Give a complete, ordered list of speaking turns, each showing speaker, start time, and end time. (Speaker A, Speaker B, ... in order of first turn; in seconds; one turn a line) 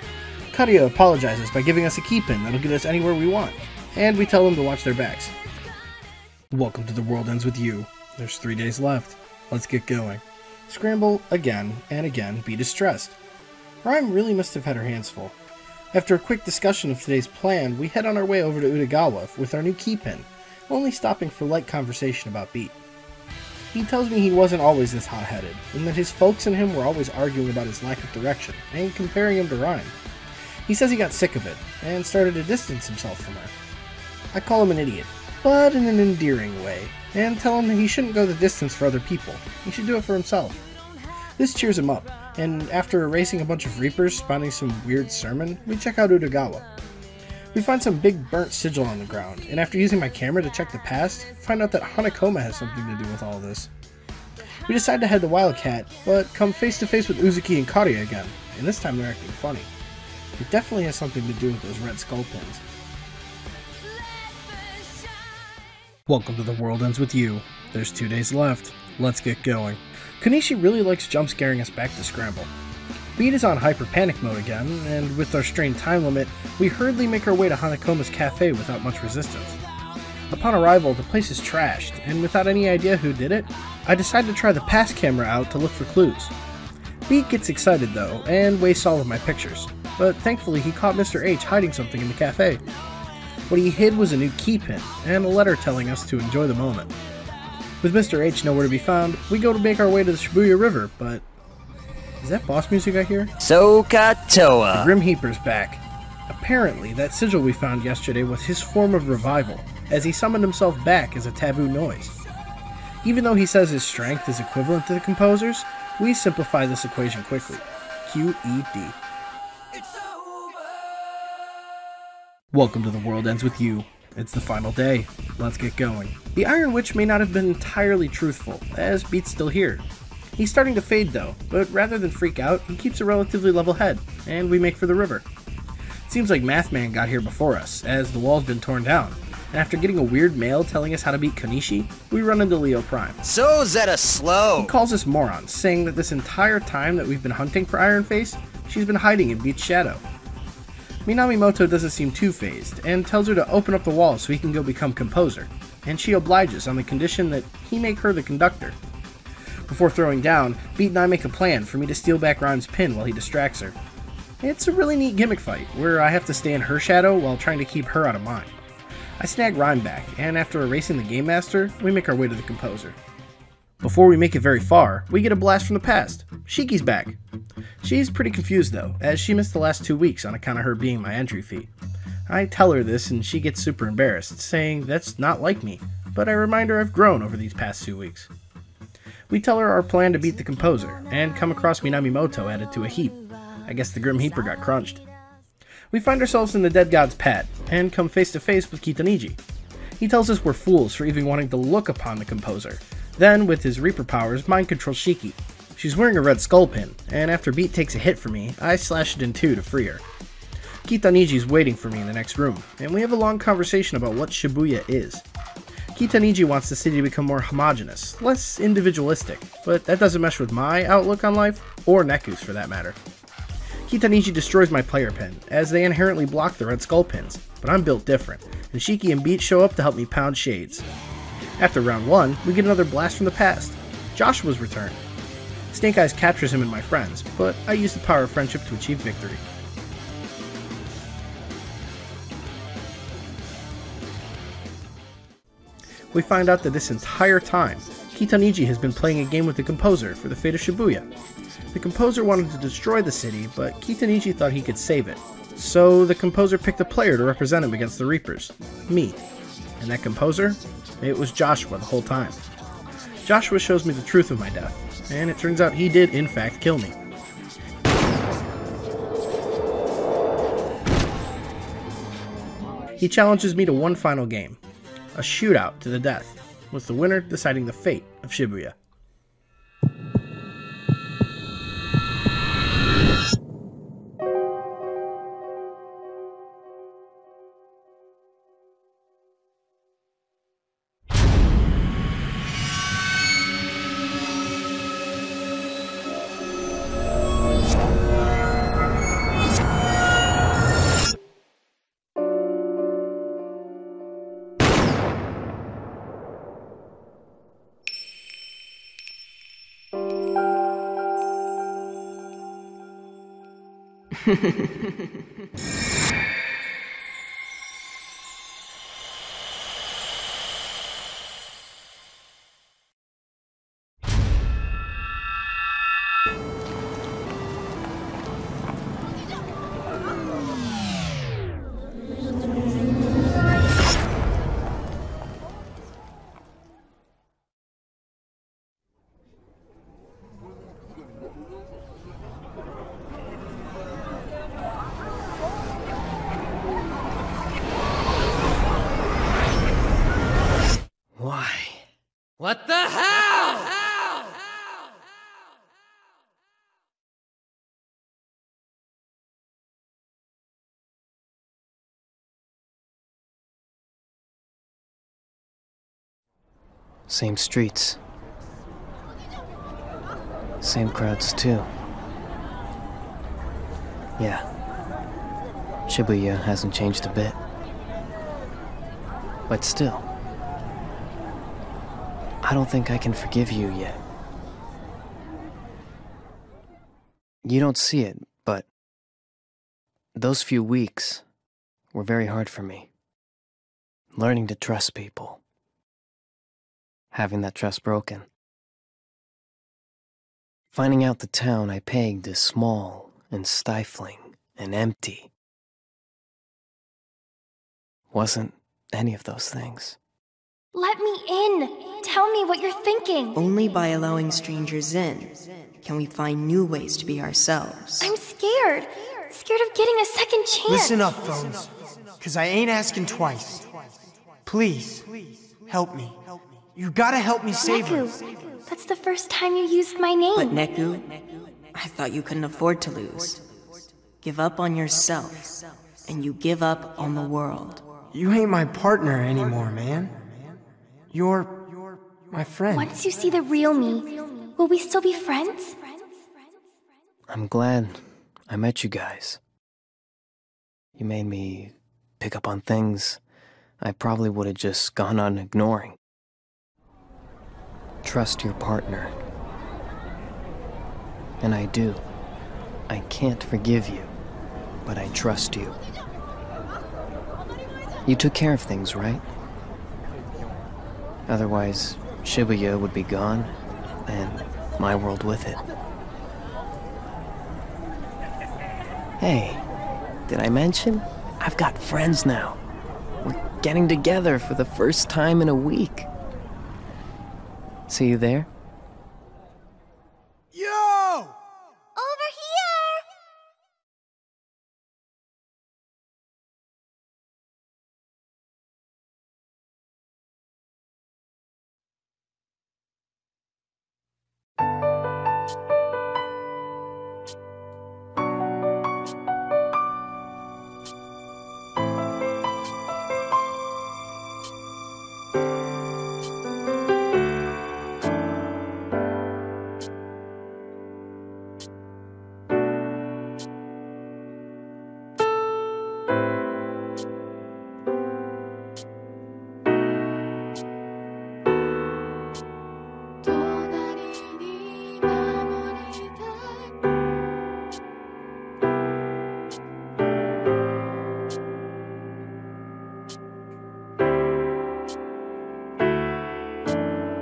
Speaker A: 0.5-5.3
Speaker A: 6.5-13.2
Speaker A: 13.8-15.3
Speaker A: 15.9-22.8
Speaker A: 23.7-30.0
Speaker A: 30.7-33.5
Speaker A: 34.3-40.6
Speaker A: 41.4-46.7
Speaker A: 47.5-53.7
Speaker A: 54.7-59.7
Speaker A: 60.4-62.6
Speaker A: 66.1-72.5
Speaker A: 73.2-79.6
Speaker A: 80.3-86.3
Speaker A: 87.1-92.6
Speaker A: 93.5-96.9
Speaker A: 97.8-101.2
Speaker A: 102.2-103.3
Speaker B: 103.4-104.9
Speaker A: 104.7-112.2
Speaker A: 113.0-119.0
Speaker A: 122.5-129.8
Speaker A: 130.4-135.3
Speaker A: 136.1-143.2
Speaker B: 143.2-144.8
Speaker A: 144.6-150.0
Speaker A: 151.1-158.8
Speaker A: 159.7-163.8
Speaker A: 164.4-168.6
Speaker A: 169.2-173.0
Speaker A: 173.8-177.2
Speaker A: 177.8-181.7
Speaker A: 182.3-188.3
Speaker A: 189.3-195.0
Speaker A: 195.9-199.4
Speaker A: 200.0-210.0
Speaker A: 210.8-215.2
Speaker A: 215.9-223.0
Speaker A: 223.9-230.8
Speaker A: 231.6-235.0
Speaker A: 235.7-239.4
Speaker A: 246.1-251.1
Speaker A: 251.7-259.2
Speaker A: 259.8-262.4
Speaker A: 263.2-267.0
Speaker A: 273.0-274.6
Speaker A: 275.1-278.8
Speaker C: 314.2-315.1
Speaker D: 351.1-351.9
Speaker B: 352.4-353.7
Speaker D: 367.1-368.0
Speaker D: 370.6-371.7
Speaker D: 374.2-374.4
Speaker D: 375.9-377.4
Speaker D: 379.5-380.1
Speaker D: 382.4-384.0
Speaker D: 387.4-388.7
Speaker D: 390.1-391.2
Speaker D: 391.9-392.9
Speaker D: 394.1-395.4
Speaker D: 397.1-398.3
Speaker D: 400.7-405.3
Speaker D: 408.1-410.0
Speaker E: 410.7-413.4
Speaker C: 413.4-418.1
Speaker E: 418.0-421.0
Speaker F: 420.7-423.7
Speaker F: 424.4-428.1
Speaker E: 427.6-430.6
Speaker C: 430.4-433.4
Speaker C: 434.2-438.0
Speaker F: 438.1-440.3
Speaker F: 441.1-443.0
Speaker E: 442.7-445.8
Speaker D: 447.3-449.4
Speaker D: 451.0-453.2
Speaker D: 453.8-456.0
Speaker D: 458.0-459.2
Speaker D: 461.4-462.0
Speaker D: 462.9-464.1
Speaker D: 464.9-465.8
Speaker D: 468.1-469.2
Speaker D: 471.3-473.5
Speaker D: 474.1-475.6
Speaker D: 479.2-479.6
Speaker D: 480.3-482.6
Speaker D: 483.2-486.1
Speaker D: 487.9-488.5
Speaker F: 490.5-491.4
Speaker E: 492.0-493.0
Speaker E: 533.3-536.4